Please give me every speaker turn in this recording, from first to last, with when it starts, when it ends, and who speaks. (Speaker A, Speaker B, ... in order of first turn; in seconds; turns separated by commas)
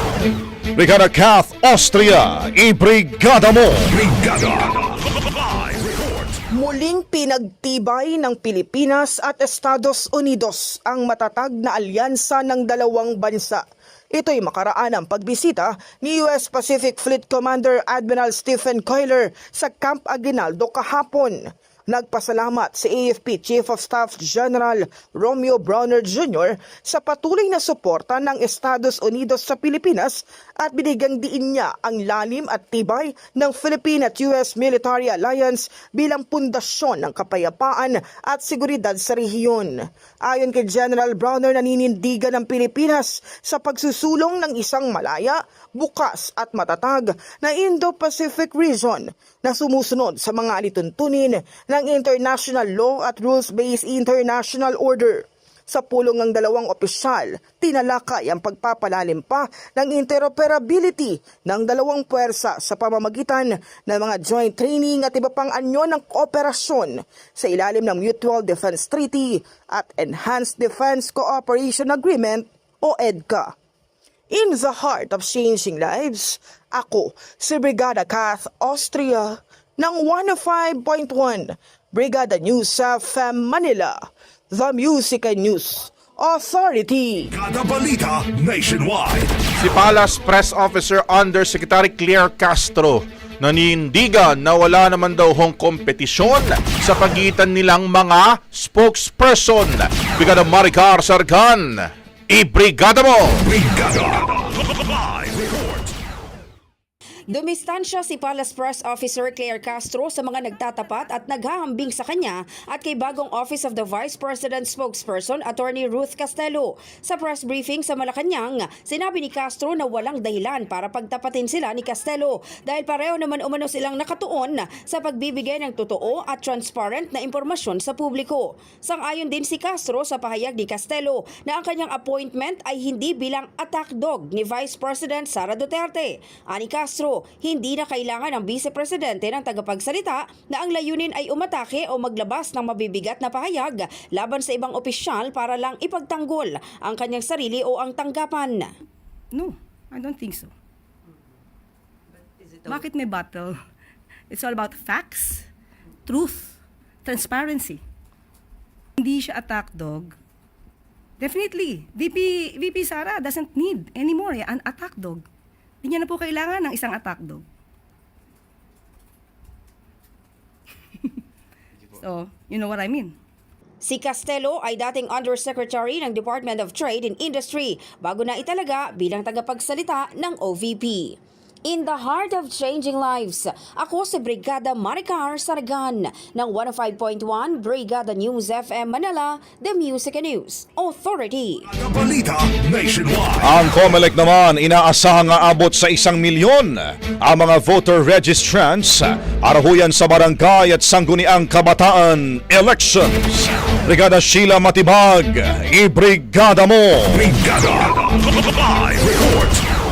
Speaker A: 0.8-3.9, Speaker B: 3.9-6.4, Speaker C: 6.5-73.5, Speaker C: 74.3-87.3, Speaker B: 87.3-89.4, Speaker D: 89.6-103.4, Speaker B: 103.4-105.9, Speaker E: 107.3-148.7, Speaker F: 149.3-150.5, Speaker F: 152.6-153.6, Speaker F: 154.3-155.5, Speaker F: 156.1-157.8, Speaker F: 159.0-160.1, Speaker F: 161.2-165.2, Speaker F: 165.8-167.4, Speaker F: 171.9-173.1, Speaker E: 173.8-191.7, Speaker B: 191.7-193.5, Speaker A: 193.4-207.2, Speaker B: 207.1-209.6